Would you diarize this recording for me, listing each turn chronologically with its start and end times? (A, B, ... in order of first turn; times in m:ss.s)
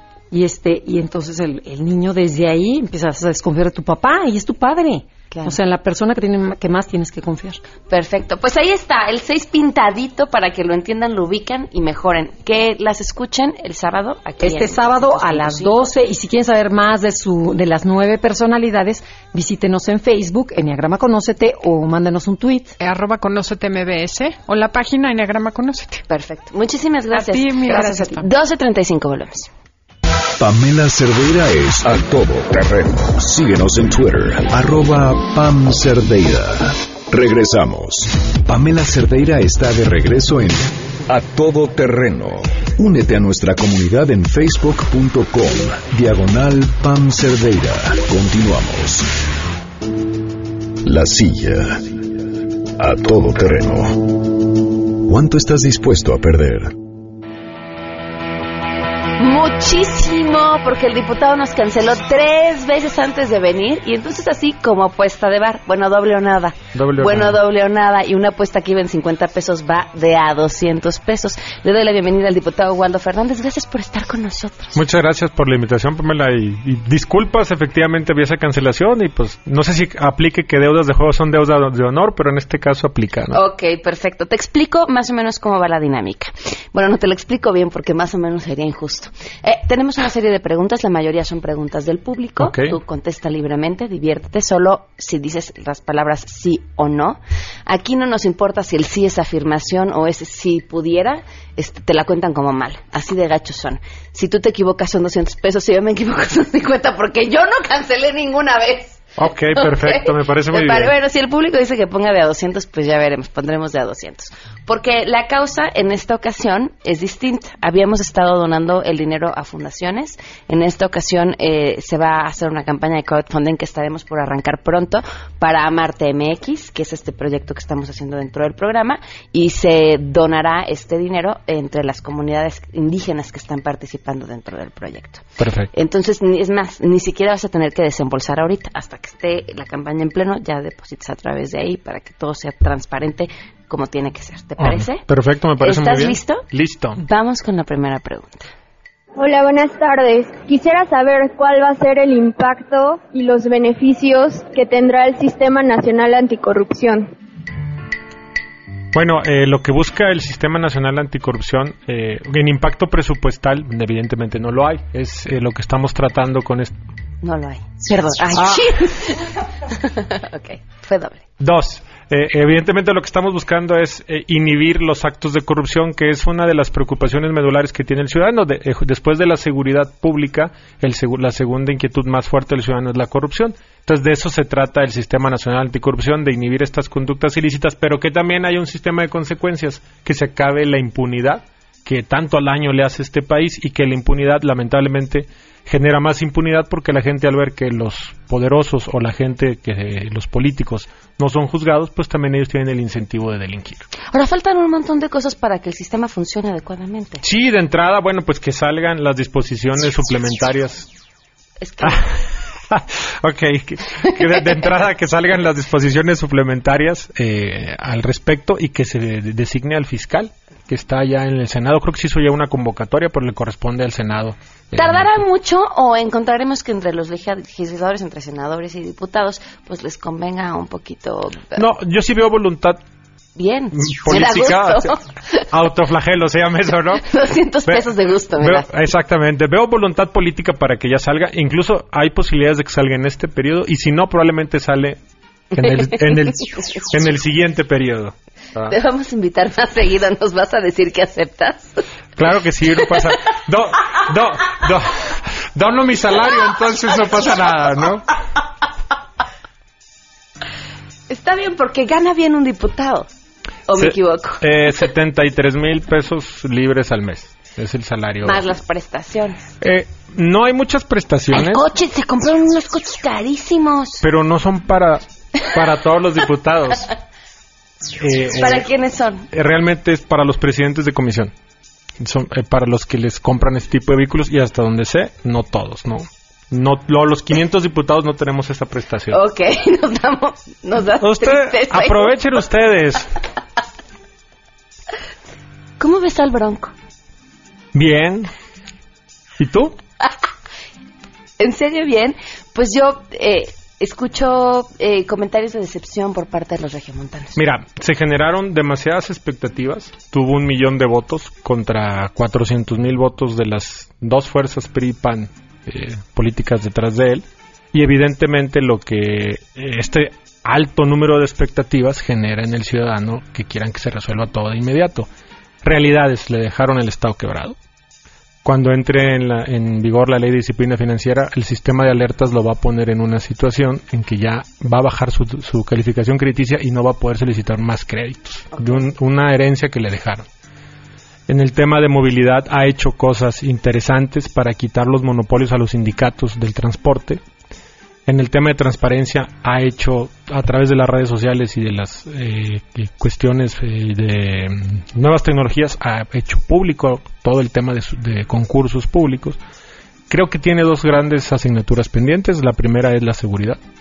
0:00.3-0:07.6 A
0:05.3-0:05.6 B
0:07.9-0:15.9 B
0:14.4-0:22.8 A
0:22.8-0:26.0 C
0:26.1-0:29.5 B
0:27.1-0:28.2 C
0:27.7-0:28.1 A
0:30.4-0:49.1 D
0:50.8-0:52.0 D
0:52.8-0:56.7 D
0:59.2-1:14.8 B
1:06.7-1:07.4 E
1:14.7-1:23.4 E
1:23.3-2:25.0 B
1:32.4-1:32.8 E
1:49.2-1:50.9 E
2:15.4-2:15.7 E
2:24.6-2:27.0 E
2:25.6-2:26.4 B
2:27.0-2:28.5 B
2:29.2-2:37.1 F
2:38.9-2:46.7 E
2:47.2-2:51.2 B
2:48.3-2:48.8 E
2:51.4-3:23.9 E
3:24.1-3:27.2 B
3:27.2-3:30.9 E
3:31.6-3:32.0 B
3:31.8-3:32.1 E
3:32.7-3:45.2 E
3:44.7-3:51.6 B
3:51.6-3:52.8 E
3:53.4-3:55.4 B
3:53.7-3:54.9 E
3:55.5-3:57.0 E
3:57.0-3:58.7 B
3:57.6-4:05.0 E
4:05.5-4:08.8 E
4:05.6-4:06.0 B
4:08.7-4:11.8 B
4:12.2-4:18.0 E
4:21.1-4:23.1 B
4:23.7-4:24.4 B
4:23.8-4:28.4 E
4:28.2-4:29.4 B
4:29.6-4:31.6 E
4:31.3-4:34.0 B
4:34.0-4:36.9 E
4:38.0-4:38.6 E
4:38.4-4:39.2 B
4:39.3-4:41.3 E
4:42.0-4:49.2 E
4:49.1-4:52.1 B
4:51.0-4:53.1 E
4:55.8-4:56.7 B
4:57.7-4:58.3 E
4:59.4-4:59.7 E
5:01.4-5:07.4 B
5:07.4-5:25.1 E
5:25.6-5:27.6 E
5:28.4-5:40.2 E
5:41.3-5:47.2 E
5:48.1-5:59.4 E
6:00.1-6:03.6 E